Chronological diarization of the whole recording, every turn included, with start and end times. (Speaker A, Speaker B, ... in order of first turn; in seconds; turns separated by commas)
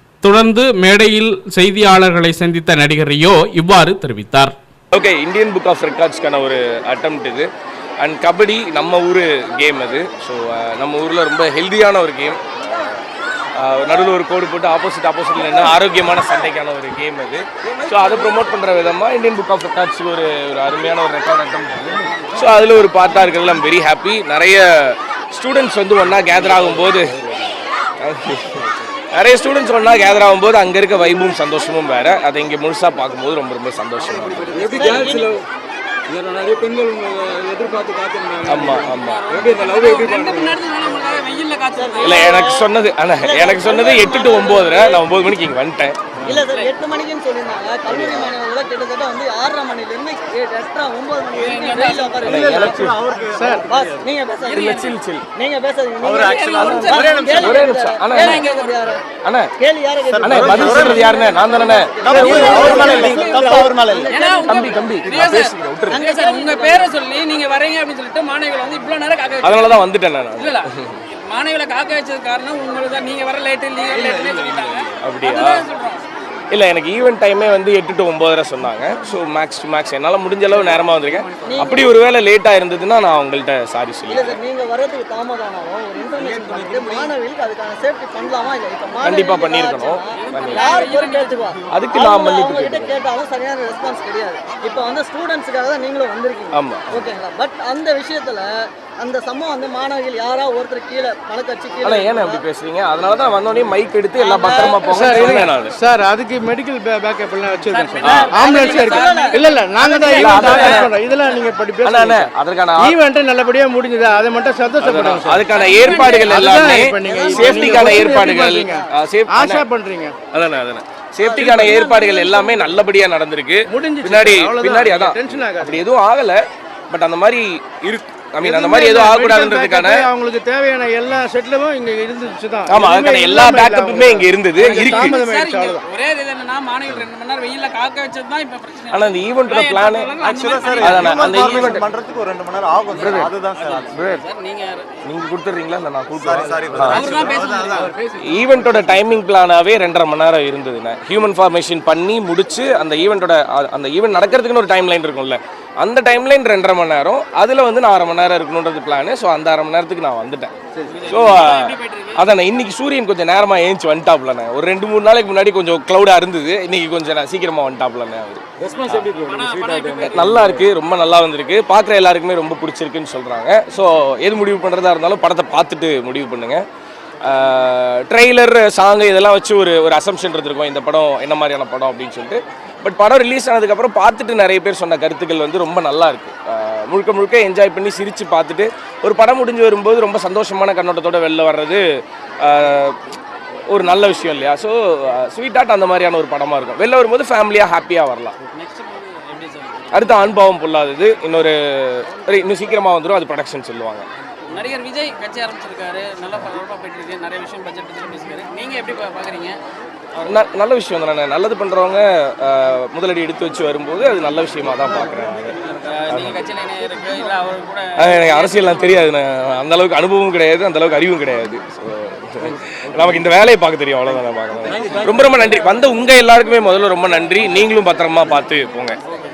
Speaker A: 0.2-4.5, Speaker B: 4.9-7.5, Speaker B: 8.0-13.0, Speaker B: 13.6-27.2, Speaker B: 28.0-35.1, Speaker C: 34.4-35.4, Speaker D: 34.7-35.3, Speaker C: 36.1-40.6, Speaker B: 38.4-39.5, Speaker E: 38.5-42.3, Speaker D: 41.8-42.6, Speaker B: 42.0-46.4, Speaker D: 43.2-45.0, Speaker D: 46.2-52.9, Speaker E: 46.4-46.7, Speaker B: 47.9-48.3, Speaker E: 51.4-52.3, Speaker B: 52.2-53.0, Speaker F: 52.3-54.0, Speaker G: 53.3-53.7, Speaker D: 53.7-54.7, Speaker E: 54.5-55.0, Speaker B: 54.5-55.3, Speaker D: 55.4-59.0, Speaker F: 56.0-57.4, Speaker E: 56.1-58.8, Speaker B: 57.3-58.4, Speaker B: 59.2-59.5, Speaker D: 59.6-64.9, Speaker F: 60.1-61.1, Speaker B: 60.2-63.2, Speaker F: 62.0-64.2, Speaker E: 62.1-69.8, Speaker B: 64.4-66.0, Speaker F: 65.0-65.3, Speaker D: 65.9-66.9, Speaker B: 69.4-71.0, Speaker E: 70.4-76.0, Speaker B: 75.0-75.7, Speaker B: 76.5-84.4, Speaker D: 81.5-81.9, Speaker D: 84.1-98.5, Speaker B: 89.0-90.7, Speaker E: 90.2-91.5, Speaker B: 91.7-93.0, Speaker B: 96.5-97.1, Speaker D: 99.0-102.4, Speaker B: 101.8-105.8, Speaker D: 104.2-105.5, Speaker G: 104.8-115.5, Speaker E: 107.7-110.9, Speaker B: 108.0-108.3, Speaker D: 108.1-110.8, Speaker B: 110.1-110.9, Speaker B: 111.8-113.0, Speaker B: 114.8-119.7, Speaker E: 115.5-116.5, Speaker D: 115.8-116.2, Speaker G: 116.1-120.1, Speaker D: 117.0-118.8, Speaker B: 120.3-130.1, Speaker D: 121.2-122.7, Speaker G: 121.5-121.8, Speaker G: 123.7-125.8, Speaker G: 128.4-135.8, Speaker B: 132.7-135.2, Speaker E: 134.8-141.8, Speaker B: 138.9-140.1, Speaker F: 140.2-144.0, Speaker B: 140.7-141.9, Speaker E: 142.9-144.9, Speaker B: 143.0-143.3, Speaker B: 143.9-144.2, Speaker B: 145.1-147.4, Speaker F: 146.2-147.9, Speaker E: 146.8-148.8, Speaker B: 148.2-160.5, Speaker E: 160.8-162.3, Speaker B: 161.1-169.1, Speaker C: 168.7-170.5, Speaker G: 168.7-169.0, Speaker E: 169.0-170.4, Speaker B: 170.0-176.6, Speaker B: 177.2-191.8, Speaker B: 192.4-193.0, Speaker B: 193.7-198.3, Speaker E: 198.5-200.3, Speaker B: 199.9-204.1, Speaker E: 204.5-209.6, Speaker B: 210.2-216.4, Speaker E: 215.8-219.0, Speaker B: 218.0-229.0